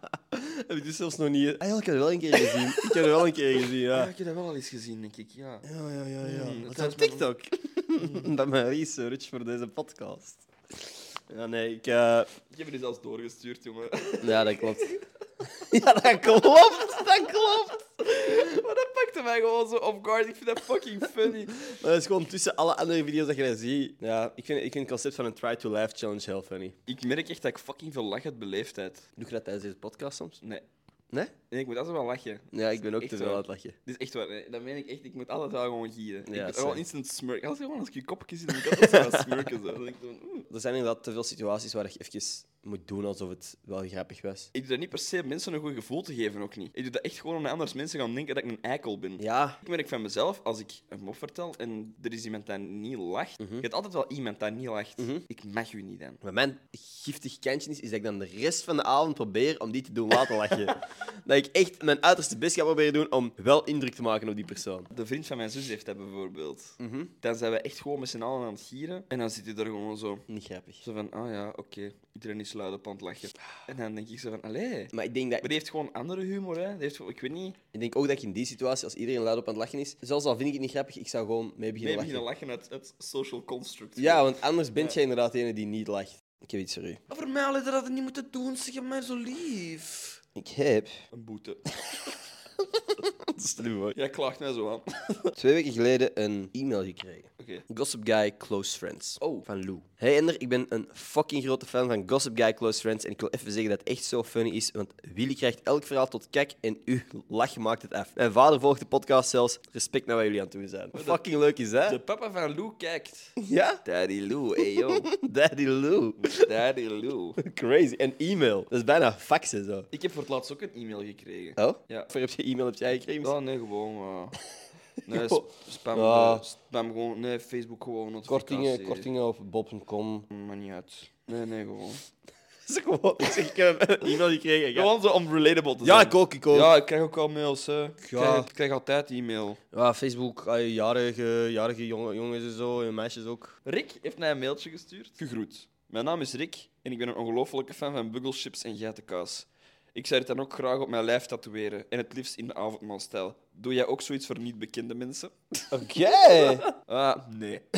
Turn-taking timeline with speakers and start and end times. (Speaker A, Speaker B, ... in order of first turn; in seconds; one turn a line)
Speaker A: 0.3-4.1
Speaker B: 2.3-3.0
Speaker B: 3.8-5.7
Speaker A: 5.6-12.3
Speaker B: 6.2-7.3
Speaker B: 8.0-8.3
Speaker B: 12.5-14.9
Speaker A: 14.2-17.8
Speaker B: 18.0-21.7
Speaker A: 21.7-26.7
Speaker B: 26.9-29.0
Speaker A: 29.2-30.4
Speaker B: 31.5-40.5
Speaker A: 32.5-33.8
Speaker A: 36.3-36.8
Speaker A: 38.6-39.5
Speaker A: 40.5-44.5
Speaker B: 44.5-56.2
Speaker A: 49.2-49.6
Speaker A: 53.4-53.6
Speaker A: 55.0-55.2
Speaker A: 56.2-64.9
Speaker B: 64.9-70.2
Speaker A: 66.8-67.1
Speaker A: 70.3-70.8
Speaker B: 70.8-77.6
Speaker A: 74.9-75.5
Speaker A: 77.7-82.2
Speaker B: 81.7-85.0
Speaker A: 84.0-87.0
Speaker B: 87.1-90.2
Speaker A: 90.3-91.0
Speaker B: 91.1-91.6
Speaker A: 93.4-94.0
Speaker B: 93.9-95.3
Speaker A: 95.3-112.0
Speaker B: 97.4-97.6
Speaker B: 99.2-99.5
Speaker B: 110.9-111.2
Speaker B: 111.8-115.1
Speaker A: 113.4-113.8
Speaker A: 115.1-116.5
Speaker B: 116.2-117.4
Speaker A: 117.4-119.9
Speaker B: 119.9-122.1
Speaker A: 121.6-123.3
Speaker B: 123.2-124.3
Speaker A: 125.0-125.4
Speaker B: 125.0-129.1
Speaker A: 125.9-126.5
Speaker A: 128.3-130.3
Speaker B: 130.3-132.0
Speaker A: 132.7-134.9
Speaker B: 134.0-139.6
Speaker A: 135.8-136.7
Speaker A: 138.0-138.5
Speaker A: 139.7-143.6
Speaker B: 143.6-155.3
Speaker A: 155.7-156.7
Speaker B: 156.3-157.6